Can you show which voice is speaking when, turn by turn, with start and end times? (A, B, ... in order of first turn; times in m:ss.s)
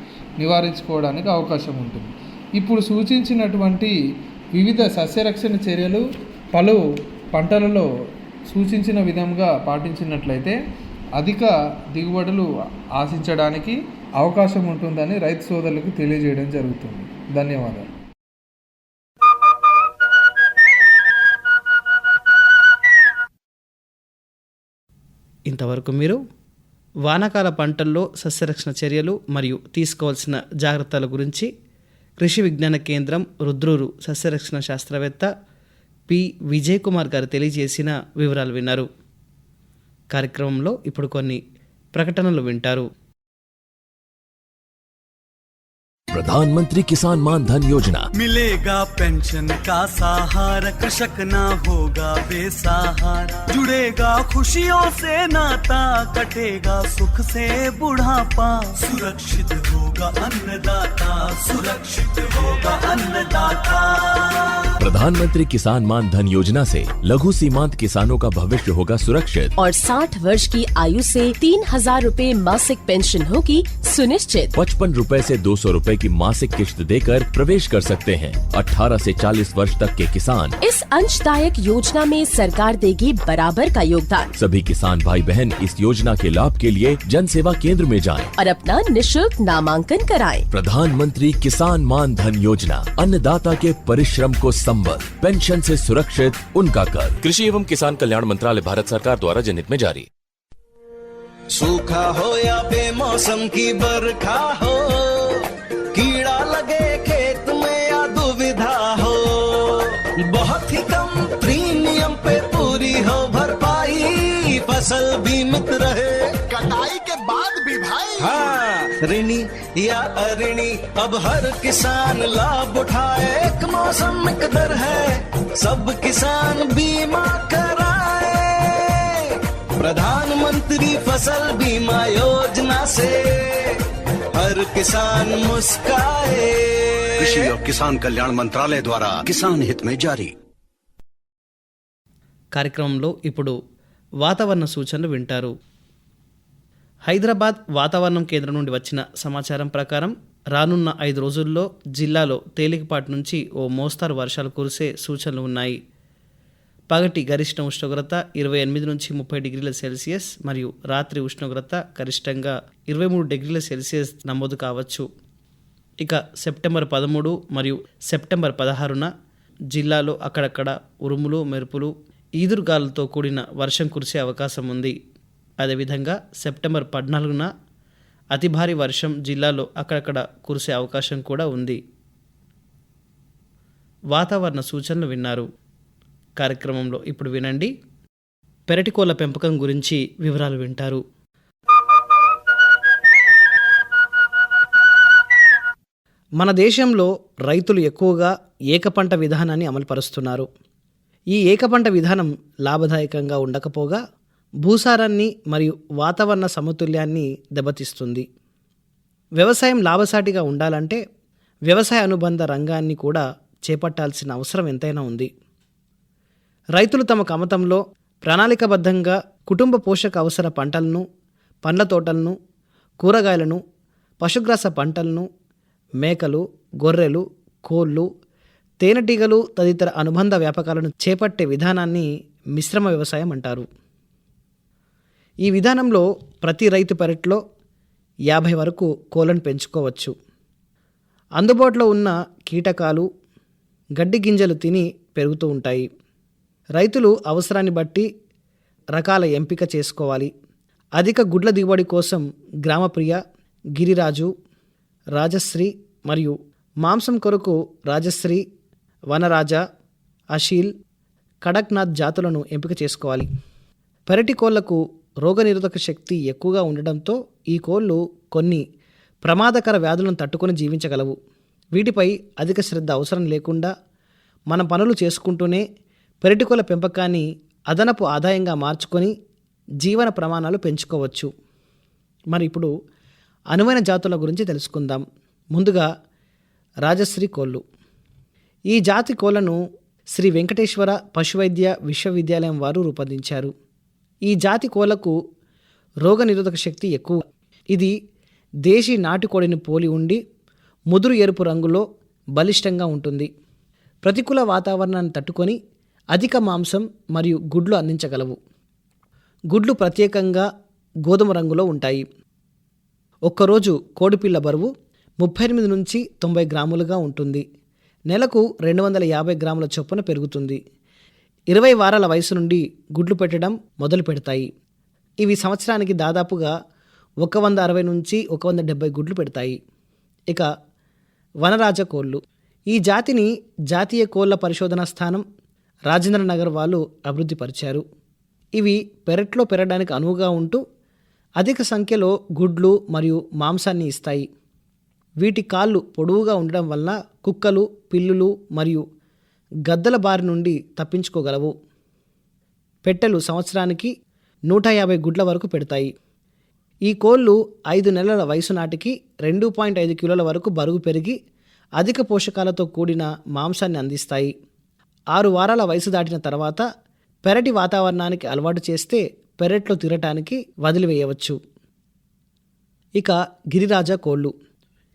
0:00.4-0:03.9 A
0:04.5-0:06.8 A
0:07.3-0:07.9 A
0:08.5-0:10.6 A
0:11.2-0:17.9 A
0:25.5-0:26.2 B
0:27.0-0:31.5 B
0:32.2-0:35.3 B
0:36.1-0:38.9 B
0:40.1-0:41.4 B
0:41.9-0:42.9 B
0:46.1-0:48.1 C
0:48.2-1:04.7 D
1:04.8-1:09.5 C
1:09.6-1:14.5 E
1:14.6-1:20.6 C
1:20.6-1:24.3 E
1:24.4-1:28.3 C
1:28.4-1:30.5 E
1:30.5-1:40.1 C
1:41.5-1:56.4 F
1:56.5-1:58.4 G
1:58.2-2:13.8 F
2:14.3-2:17.6 F
2:17.2-2:20.3 G
2:22.5-2:23.6 B
2:24.2-2:25.5 B
2:27.1-2:35.8 B
2:36.9-2:45.1 B
2:46.0-2:49.1 B
2:49.7-2:54.9 B
2:55.6-2:57.5 B
2:58.3-3:01.8 B
3:04.1-3:05.4 B
3:06.4-3:07.7 B
3:08.7-3:11.0 B
3:16.4-3:20.5 B
3:21.3-3:24.0 B
3:24.6-3:28.2 B
3:29.4-3:31.0 B
3:31.7-3:35.3 B
3:36.8-3:41.0 B
3:41.6-3:42.4 B
3:43.0-3:43.6 B
3:44.2-3:45.3 B
3:46.0-3:48.1 B
3:48.8-3:53.7 B
3:55.4-3:57.4 B
3:58.3-4:00.1 B
4:01.4-4:03.0 B
4:04.0-4:05.9 B
4:06.8-4:08.1 B
4:08.9-4:10.3 B
4:11.0-4:13.2 B
4:13.8-4:14.3 B
4:15.2-4:18.4 B
4:19.1-4:19.6 B
4:20.3-4:20.7 B
4:21.4-4:23.3 B
4:24.1-4:28.6 B
4:29.2-4:31.2 B
4:31.8-4:33.7 B
4:34.5-4:35.6 B
4:36.2-4:39.1 B
4:39.8-4:41.3 B
4:42.3-4:42.7 B
4:43.5-4:45.9 B
4:46.8-4:47.6 B
4:48.7-4:49.6 B
4:50.1-4:53.5 B
4:54.3-4:55.2 B
4:56.0-4:57.2 B
4:58.6-5:00.2 B
5:00.9-5:01.8 B
5:02.4-5:03.3 B
5:04.0-5:05.6 B
5:06.1-5:08.4 B
5:09.5-5:10.5 B
5:11.0-5:12.0 B
5:13.3-5:17.4 B
5:18.1-5:20.6 B
5:21.5-5:24.5 B
5:25.2-5:26.5 B
5:27.2-5:29.6 B
5:31.4-5:32.2 B
5:32.7-5:35.2 B
5:35.9-5:37.8 B
5:38.6-5:40.6 B
5:41.4-5:44.3 B
5:45.2-5:48.8 B
5:49.6-5:51.5 B
5:52.8-5:53.9 B
5:54.5-5:55.9 B
5:56.8-6:01.2 B
6:01.8-6:04.3 B
6:05.1-6:06.6 B
6:07.2-6:11.4 B
6:13.0-6:14.3 B